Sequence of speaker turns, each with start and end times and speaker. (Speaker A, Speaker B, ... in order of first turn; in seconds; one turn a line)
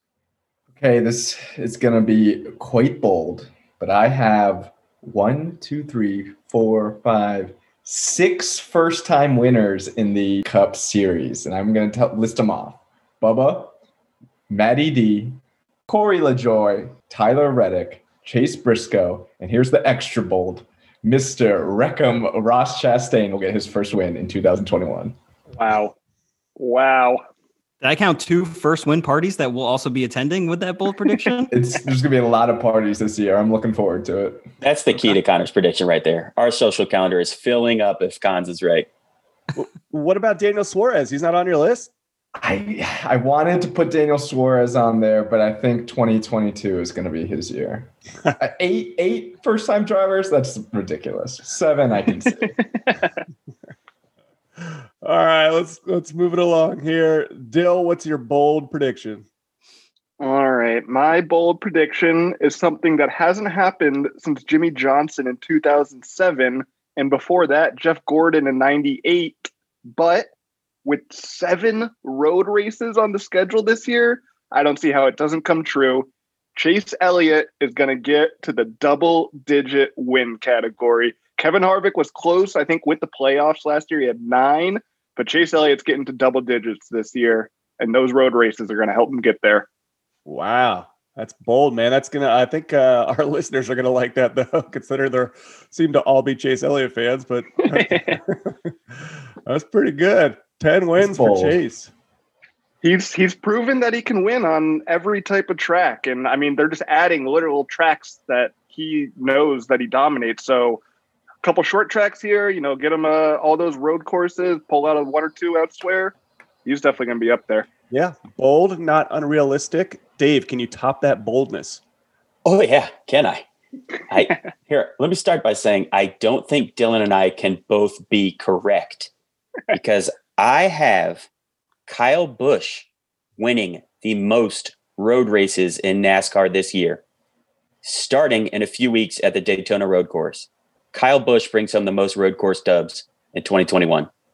Speaker A: 0.7-13.7
Speaker A: 14.5-25.1
Speaker B: 25.6-25.9
Speaker B: 26.6-27.2
Speaker C: 27.8-31.5
Speaker A: 31.5-34.5
Speaker D: 34.6-38.9
Speaker E: 39.5-41.9
Speaker A: 42.4-52.5
Speaker E: 54.6-59.3
Speaker B: 60.2-70.3
Speaker B: 70.8-89.7
Speaker E: 90.3-98.5
Speaker B: 97.7-98.1
Speaker E: 99.5-101.9
Speaker A: 101.0-101.6
Speaker B: 102.8-110.8
Speaker B: 111.4-117.7
Speaker E: 117.9-121.8
Speaker D: 122.5-123.5
Speaker D: 124.1-129.1
Speaker D: 129.7-131.3
Speaker D: 131.9-137.0
Speaker D: 137.8-144.1